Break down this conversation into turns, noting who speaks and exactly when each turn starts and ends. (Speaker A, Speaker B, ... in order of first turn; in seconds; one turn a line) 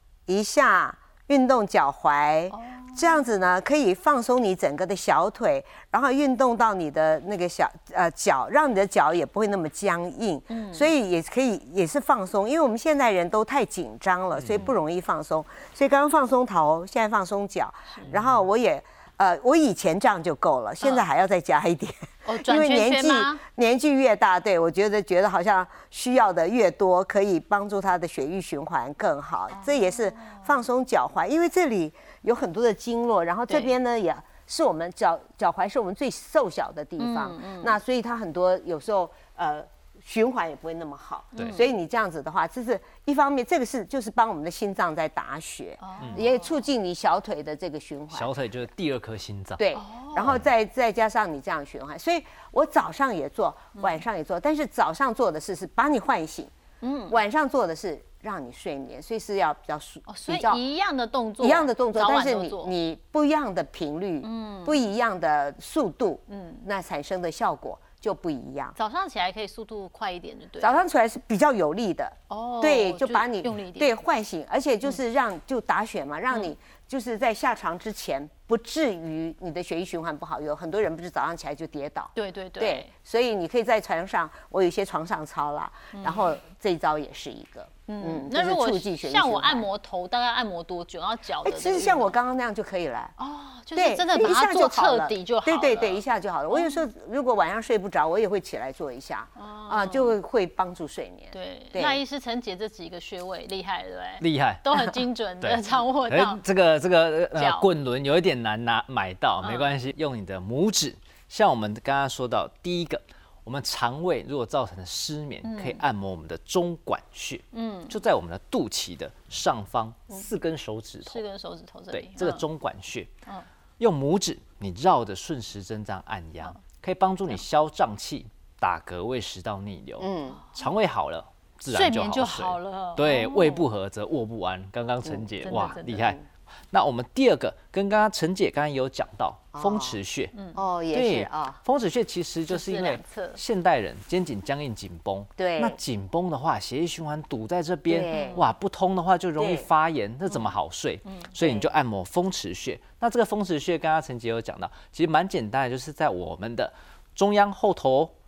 Speaker A: 0.3-48.3
Speaker B: 2.5-3.2
Speaker B: 10.5-10.9
Speaker C: 14.4-14.7
Speaker C: 18.1-18.4
Speaker B: 22.3-23.4
Speaker B: 29.5-30.5
Speaker B: 33.5-33.7
Speaker B: 37.0-37.8
Speaker B: 41.3-41.7
Speaker B: 45.8-46.6
Speaker C: 48.1-49.6
Speaker A: 49.6-56.5
Speaker B: 49.8-50.4
Speaker B: 56.8-57.2
Speaker A: 57.1-60.6
Speaker B: 60.1-62.7
Speaker A: 61.4-68.8
Speaker B: 64.2-64.8
Speaker B: 66.3-66.6
Speaker B: 68.8-70.8
Speaker A: 70.6-89.7
Speaker B: 72.3-74.0
Speaker B: 82.2-82.9
Speaker B: 85.9-86.3
Speaker B: 87.9-92.2
Speaker A: 91.4-93.1
Speaker B: 93.2-96.8
Speaker A: 93.8-102.0
Speaker B: 99.4-100.2
Speaker B: 101.3-106.4
Speaker C: 104.2-121.2
Speaker B: 107.3-107.7
Speaker B: 109.4-109.7
Speaker B: 115.4-115.8
Speaker B: 117.5-118.0
Speaker B: 121.0-122.5
Speaker C: 121.9-123.1
Speaker C: 123.8-136.2
Speaker A: 130.0-130.4
Speaker B: 130.3-130.6
Speaker B: 131.7-133.7
Speaker A: 135.1-136.2
Speaker B: 135.4-136.1
Speaker C: 136.7-140.3
Speaker A: 139.6-140.0
Speaker B: 140.3-140.6
Speaker A: 140.6-141.6
Speaker C: 140.9-158.1
Speaker B: 142.5-143.4
Speaker A: 145.4-145.8
Speaker A: 147.9-148.4
Speaker B: 148.1-148.5
Speaker A: 149.4-149.7
Speaker A: 151.4-151.7